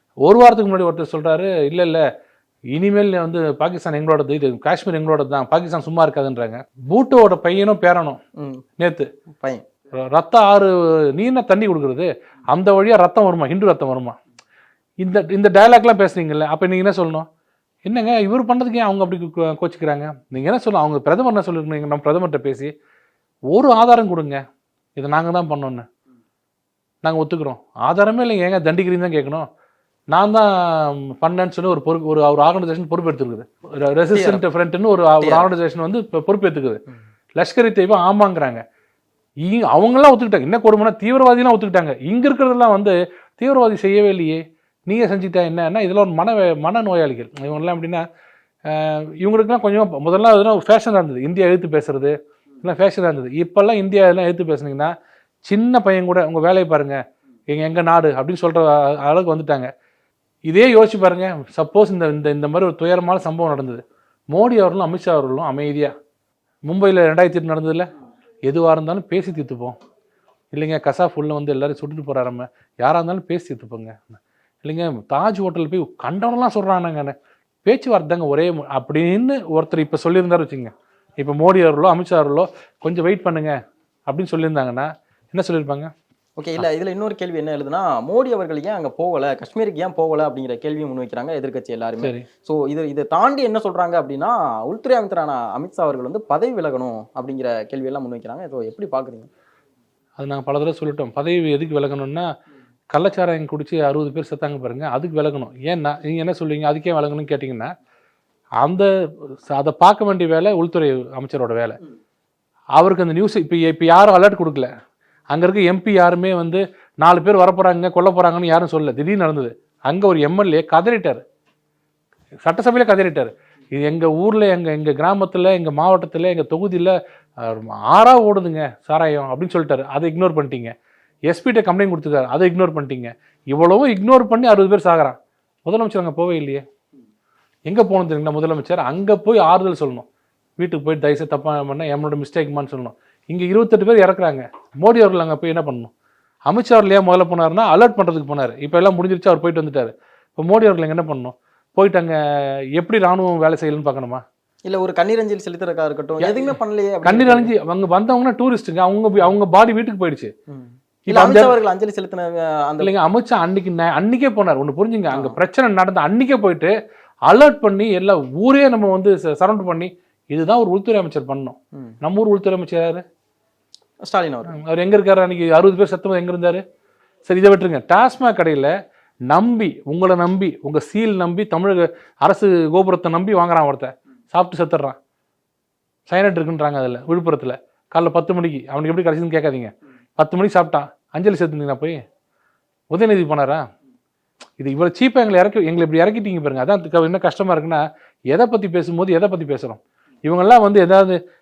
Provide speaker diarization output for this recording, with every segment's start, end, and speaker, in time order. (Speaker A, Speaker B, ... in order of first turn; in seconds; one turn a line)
Speaker A: 0.2-2.0
Speaker A: 2.7-8.2
Speaker B: 8.4-8.6
Speaker A: 8.8-9.1
Speaker B: 9.3-9.6
Speaker A: 10.0-14.2
Speaker A: 15.0-17.2
Speaker A: 17.9-22.7
Speaker A: 23.5-24.4
Speaker A: 25.0-25.9
Speaker A: 27.0-29.5
Speaker A: 30.1-36.8
Speaker B: 34.1-34.4
Speaker B: 35.2-35.5
Speaker A: 37.4-38.6
Speaker A: 39.4-48.0
Speaker A: 48.7-54.9
Speaker A: 55.5-59.7
Speaker A: 60.5-65.9
Speaker A: 66.7-67.9
Speaker A: 68.5-69.8
Speaker A: 70.5-83.5
Speaker A: 84.1-85.9
Speaker B: 86.4-99.3
Speaker A: 100.2-102.3
Speaker A: 102.9-107.7
Speaker A: 108.6-108.9
Speaker A: 109.5-111.8
Speaker A: 112.8-114.7
Speaker A: 115.3-121.2
Speaker A: 122.4-130.7
Speaker A: 131.3-136.6
Speaker A: 137.7-140.1
Speaker A: 140.6-145.9
Speaker A: 146.5-152.1
Speaker A: 152.8-154.2
Speaker B: 154.7-157.5
Speaker A: 156.2-156.5
Speaker A: 157.0-160.3
Speaker B: 160.5-162.9
Speaker A: 161.1-161.5
Speaker A: 162.8-166.7
Speaker B: 165.1-165.4
Speaker A: 167.3-173.0
Speaker B: 174.0-174.5
Speaker A: 174.5-176.6
Speaker A: 177.2-178.7
Speaker A: 179.3-184.9
Speaker A: 186.1-192.0
Speaker A: 192.9-193.6
Speaker A: 194.6-201.2